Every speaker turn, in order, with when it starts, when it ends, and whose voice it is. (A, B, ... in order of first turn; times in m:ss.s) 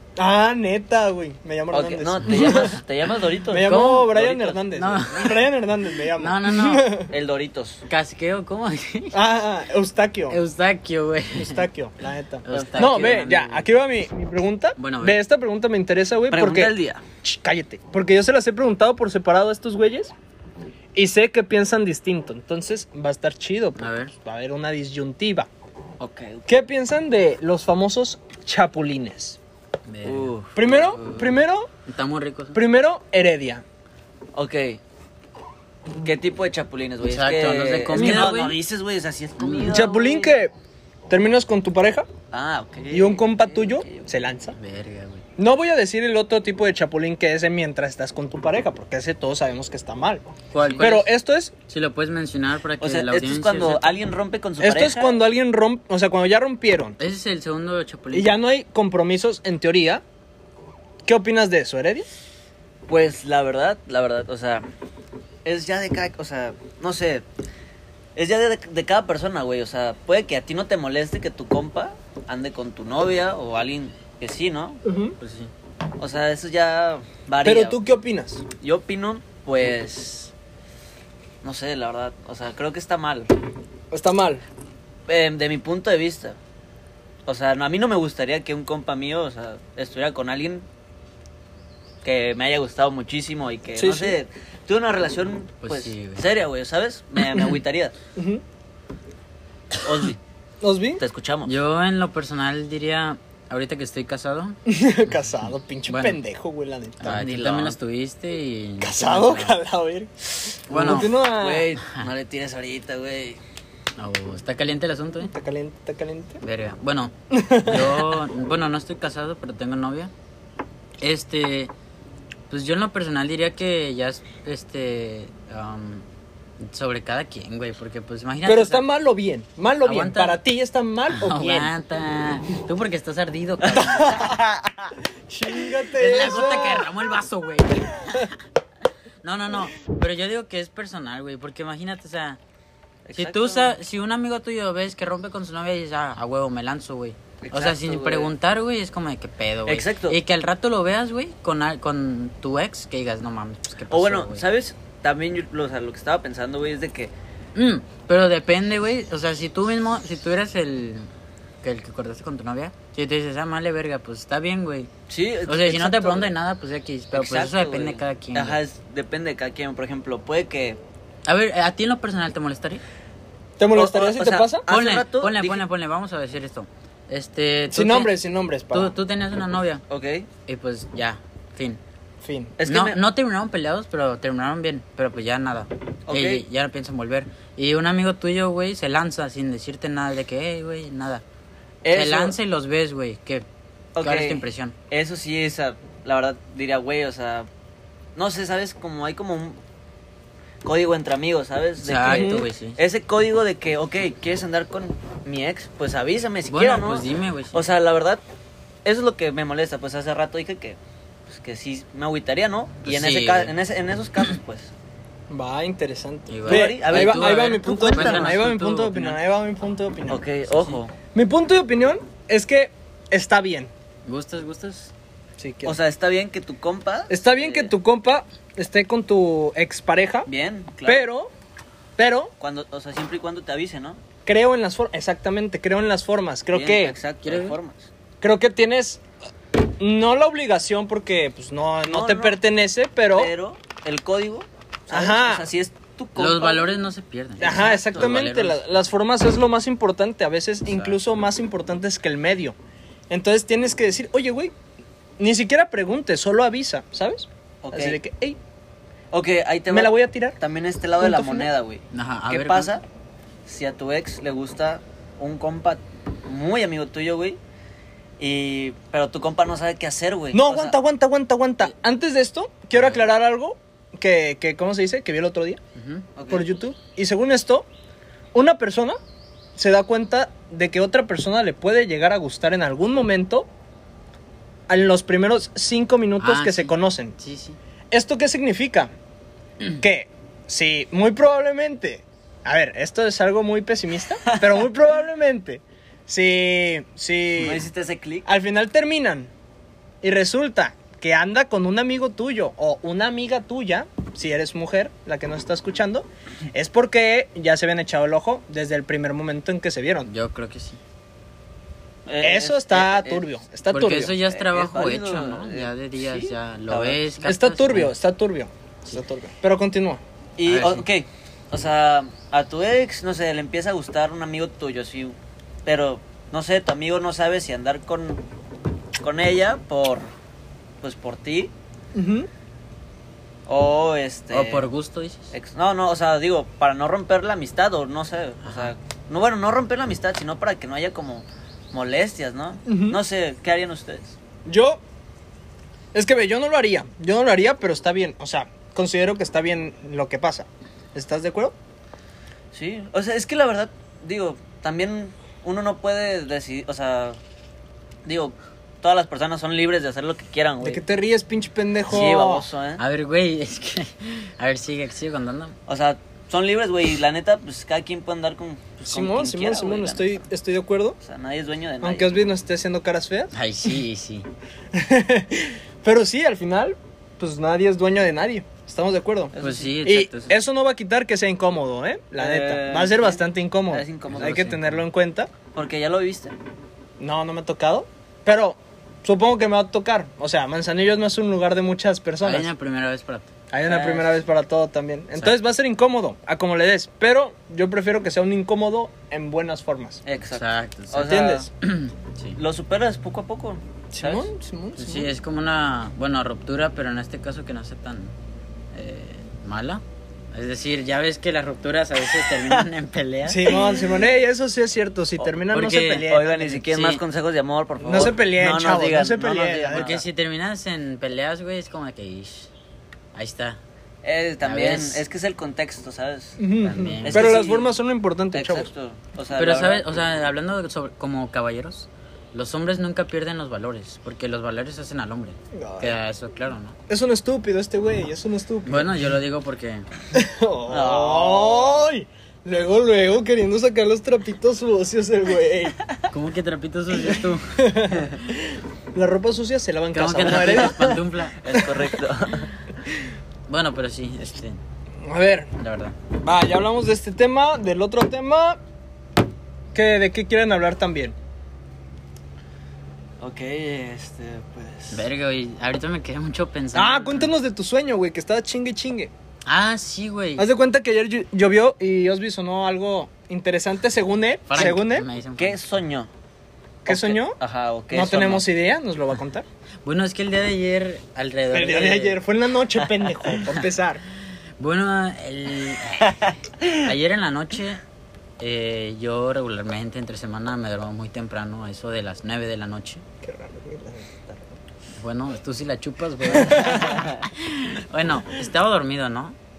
0:00.2-0:02.8 A
0:01.7-0:04.6 B
0:02.3-0:02.7 C
0:03.5-0:07.1 A
0:03.6-0:04.1 C
0:04.7-0:05.5 C
0:06.2-0:06.9 C
0:07.1-0:07.8 B
0:07.9-0:09.2 C
0:09.1-0:10.4 A
0:10.3-0:11.6 C
0:11.3-0:20.1 A
0:12.4-0:13.7 C
0:12.5-0:13.1 B
0:14.8-0:15.2 C
0:16.3-0:17.0 B
0:20.9-0:25.5 A
0:23.8-0:24.1 C
0:26.0-0:26.5 B
0:26.5-0:29.4 A
0:29.9-0:30.3 C
0:30.0-0:31.3 B
0:30.5-0:31.7 A
0:31.8-0:32.6 C
0:32.5-0:33.6 A
0:34.3-0:34.8 B
0:36.0-0:40.4 B
0:37.0-0:38.6 C
0:38.0-0:38.4 A
0:39.4-0:39.7 C
0:39.7-0:40.5 A
0:41.1-0:42.1 A
0:42.3-0:44.1 B
0:42.9-0:44.6 A
0:44.5-0:45.2 C
0:45.4-0:50.3 A
0:50.5-0:51.1 C
0:50.6-0:50.9 B
0:50.8-0:51.5 A
0:51.7-0:54.0 C
0:52.8-0:55.2 B
0:54.6-0:57.0 A
0:57.0-0:58.3 C
0:58.1-1:00.0 A
1:01.0-1:02.1 A
1:02.9-1:04.6 B
1:05.4-1:07.2 B
1:08.2-1:14.8 B
1:14.8-1:15.2 A
1:15.2-1:15.5 C
1:16.0-1:17.8 B
1:17.4-1:18.4 A
1:18.6-1:20.3 B
1:21.4-1:23.3 B
1:23.9-1:24.4 A
1:25.1-1:26.4 B
1:27.3-1:30.6 B
1:32.0-1:37.9 B
1:33.7-1:34.2 A
1:35.6-1:36.2 C
1:38.2-1:38.4 A
1:39.8-1:40.2 B
1:40.6-1:41.0 A
1:41.0-1:41.5 B
1:41.4-1:44.6 C
1:44.7-1:47.1 A
1:45.9-1:46.2 C
1:47.0-1:49.6 C
1:47.0-1:47.8 B
1:48.8-1:51.7 A
1:50.7-1:51.1 C
1:50.7-1:53.4 B
1:54.0-1:55.3 C
1:55.2-1:56.4 A
1:56.4-2:00.1 C
1:57.3-1:58.2 A
2:01.0-2:01.7 C
2:02.5-2:06.0 C
2:06.6-2:08.8 C
2:08.4-2:11.7 A
2:09.8-2:10.4 C
2:11.1-2:14.3 C
2:13.8-2:14.9 B
2:13.8-2:14.3 A
2:15.3-2:17.0 A
2:16.0-2:18.3 C
2:19.2-2:22.4 C
2:23.0-2:23.7 B
2:23.2-2:34.4 C
2:27.4-2:28.3 B
2:29.7-2:30.2 B
2:33.9-2:37.1 B
2:37.5-2:41.1 C
2:41.6-2:44.9 C
2:45.1-2:46.3 B
2:45.5-2:48.6 C
2:47.1-2:50.8 B
2:51.3-2:52.8 C
2:53.6-2:54.6 A
2:53.7-2:55.6 B
2:54.7-2:58.1 C
2:57.7-2:58.9 A
2:58.7-2:59.8 C
2:59.9-3:00.3 B
3:00.5-3:01.8 C
3:02.2-3:02.6 A
3:02.6-3:03.0 B
3:02.6-3:11.2 C
3:06.1-3:06.4 B
3:11.8-3:12.4 B
3:11.9-3:13.4 C
3:13.9-3:17.5 B
3:14.0-3:14.7 C
3:18.2-3:19.6 B
3:20.6-3:28.2 B
3:21.8-3:22.8 C
3:22.1-3:22.4 A
3:26.5-3:27.6 C
3:28.8-3:34.7 B
3:32.8-3:33.5 C
3:35.3-3:40.2 A
3:36.3-3:39.2 C
3:36.4-3:38.4 B
3:40.1-3:40.9 B
3:41.1-3:43.7 A
3:44.0-3:44.9 C
3:45.4-3:45.8 A
3:45.6-3:47.7 B
3:47.1-3:50.3 A
3:50.2-3:51.1 B
3:50.8-3:51.3 A
3:52.0-3:52.3 A
3:52.4-3:54.0 B
3:54.2-3:57.0 A
3:56.5-3:57.9 B
3:57.2-3:57.6 C
3:58.2-3:59.0 A
3:59.8-4:03.3 A
4:01.9-4:02.4 B
4:03.1-4:06.8 B
4:04.9-4:05.5 A
4:06.2-4:08.6 C
4:07.4-4:12.6 A
4:07.4-4:08.1 B
4:13.1-4:14.5 A
4:15.2-4:18.4 A
4:17.6-4:18.0 B
4:19.1-4:22.8 B
4:19.7-4:20.4 A
4:21.0-4:21.5 A
4:21.9-4:22.7 C
4:23.4-4:27.4 B
4:28.2-4:30.8 B
4:30.3-4:35.6 A
4:35.8-4:36.0 C
4:36.2-4:36.6 B
4:36.3-4:37.6 A
4:38.3-4:39.0 A
4:39.5-4:43.5 A
4:44.7-4:47.1 A
4:46.2-4:47.6 C
4:47.9-4:48.9 A
4:49.8-4:57.7 A
4:54.2-4:54.6 B
4:57.4-4:58.3 B
4:58.2-4:59.3 A
5:00.0-5:10.1 A
5:10.0-5:10.8 C
5:12.0-5:13.2 B
5:12.2-5:14.1 A
5:13.7-5:17.9 C
5:14.3-5:17.0 B
5:17.2-5:20.0 A
5:20.4-5:28.2 B
5:20.4-5:20.9 C
5:29.0-5:30.1 B
5:30.8-5:31.5 B
5:31.9-5:32.3 A
5:33.5-5:34.7 B
5:34.3-5:35.3 C
5:35.3-5:44.2 B
5:38.4-5:38.7 C
5:42.6-5:43.0 A
5:44.4-5:44.8 A
5:45.9-5:51.5 A
5:52.5-5:57.2 B
5:58.0-6:00.8 B
6:00.6-6:02.4 A
6:01.9-6:02.8 B
6:02.8-6:05.6 C
6:05.7-6:10.2 B
6:08.8-6:11.0 A
6:11.0-6:12.2 B
6:11.8-6:13.3 A
6:13.3-6:14.3 C
6:14.7-6:19.3 A
6:19.3-6:20.3 B
6:19.4-6:20.3 C
6:19.8-6:25.3 A
6:22.2-6:24.4 B
6:24.1-6:24.8 C
6:25.5-6:26.3 B
6:27.0-6:32.5 A
6:32.2-6:33.3 C
6:33.5-6:40.0 A
6:33.6-6:34.2 B
6:40.0-6:41.5 B
6:40.3-6:42.4 C
6:41.0-6:41.5 A
6:42.4-6:44.3 B
6:43.9-6:45.1 A
6:44.8-6:48.1 C
6:48.7-6:53.6 C
6:53.2-6:56.6 A
6:55.5-6:57.0 C
6:56.0-7:00.0 B
6:57.8-7:00.0 A
6:59.7-7:02.5 C
7:03.1-7:03.6 C
7:04.0-7:06.4 B
7:04.4-7:05.0 C
7:06.4-7:08.7 A
7:06.6-7:07.4 C
7:07.0-7:07.8 B
7:08.3-7:09.8 B
7:09.4-7:16.8 C
7:15.5-7:16.0 A
7:16.9-7:18.9 A
7:18.6-7:19.8 C
7:20.1-7:25.8 A
7:20.7-7:21.8 B
7:26.1-7:28.1 C
7:26.9-7:31.0 A
7:29.9-7:31.7 C
7:30.2-7:32.5 B
7:33.5-7:34.6 C
7:35.0-7:35.5 A
7:35.6-7:36.0 C
7:36.2-7:38.6 A
7:39.7-7:41.1 A
7:43.2-7:45.0 B
7:44.9-7:47.3 C
7:46.7-7:49.1 A
7:49.4-7:50.5 C
7:50.4-7:55.0 A
7:54.5-7:55.6 C
7:55.4-7:56.1 B
7:56.8-7:57.4 A
7:56.8-7:58.4 B
7:57.9-7:59.4 A
7:59.8-8:02.2 C
8:01.5-8:04.0 A
8:04.6-8:07.8 C
8:08.4-8:13.0 C
8:13.2-8:14.6 A
8:15.0-8:19.4 C
8:16.3-8:16.8 A
8:16.7-8:17.2 B